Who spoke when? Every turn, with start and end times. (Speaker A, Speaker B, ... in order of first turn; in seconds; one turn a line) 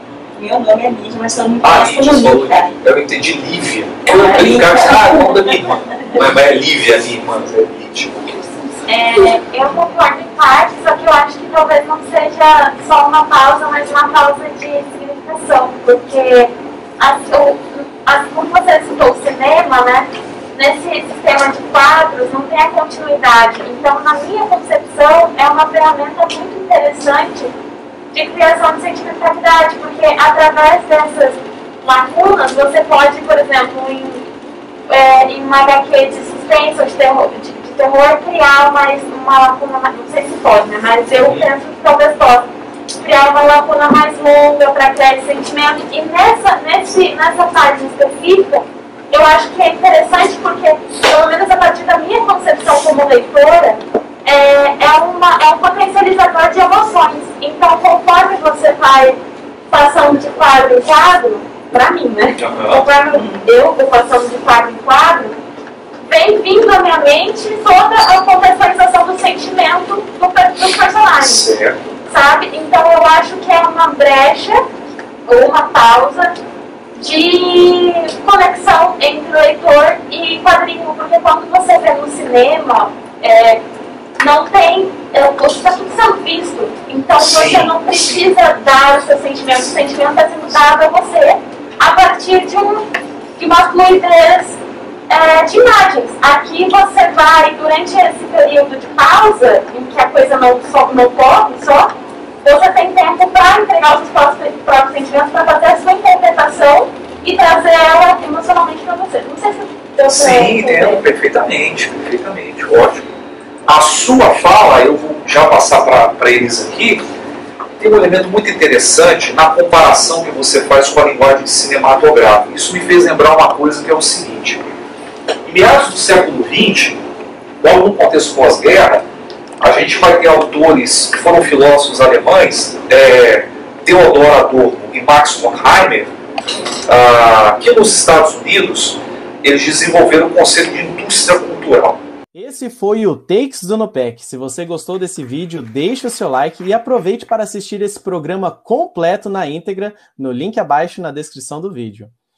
Speaker A: 0.3-2.7
Speaker B: 1.6-8.5
Speaker C: 4.0-4.4
Speaker A: 4.2-5.7
Speaker C: 8.8-27.5
Speaker C: 28.1-34.2
Speaker C: 34.9-42.5
Speaker B: 41.2-41.5
Speaker C: 43.0-59.2
Speaker C: 59.7-65.4
Speaker B: 62.4-62.8
Speaker C: 66.0-71.5
Speaker B: 71.2-71.8
Speaker C: 72.1-74.6
Speaker C: 75.3-76.4
Speaker C: 77.0-83.6
Speaker C: 84.2-92.8
Speaker B: 87.2-88.3
Speaker C: 93.4-94.6
Speaker C: 95.1-101.9
Speaker C: 102.4-111.0
Speaker B: 110.1-113.0
Speaker B: 113.7-117.0
Speaker B: 117.8-124.6
Speaker B: 125.4-127.0
Speaker B: 127.6-129.0
Speaker B: 129.6-136.1
Speaker B: 136.9-142.0
Speaker D: 142.3-152.1